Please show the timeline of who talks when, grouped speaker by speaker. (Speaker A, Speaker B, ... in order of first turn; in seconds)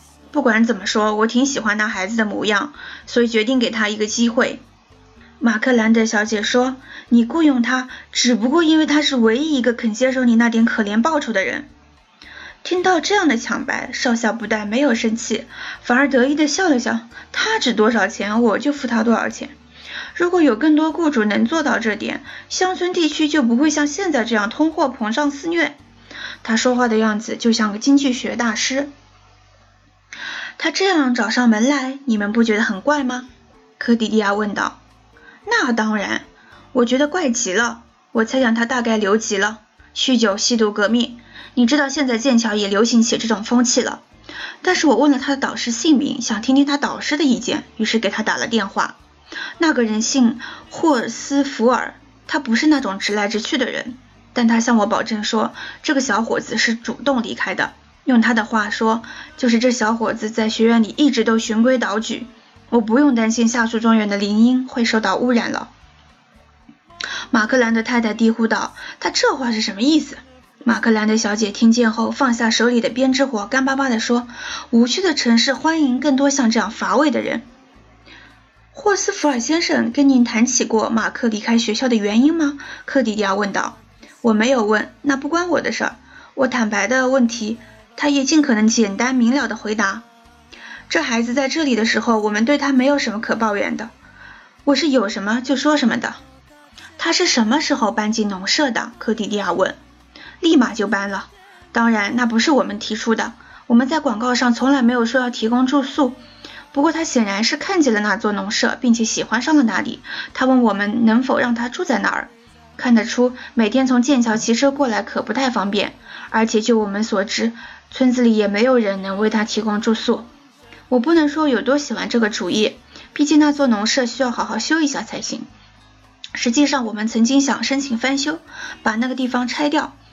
Speaker A: 0.3-4.6, 5.4-11.7, 12.6-19.5, 20.1-25.8, 26.4-28.9, 30.6-34.8, 35.5-44.0, 44.6-49.0, 49.6-65.7, 67.3-77.5, 78.7-90.0, 90.9-93.9, 94.6-96.2, 97.0-99.8, 100.4-106.2, 106.7-120.3, 120.9-125.5, 126.3-129.9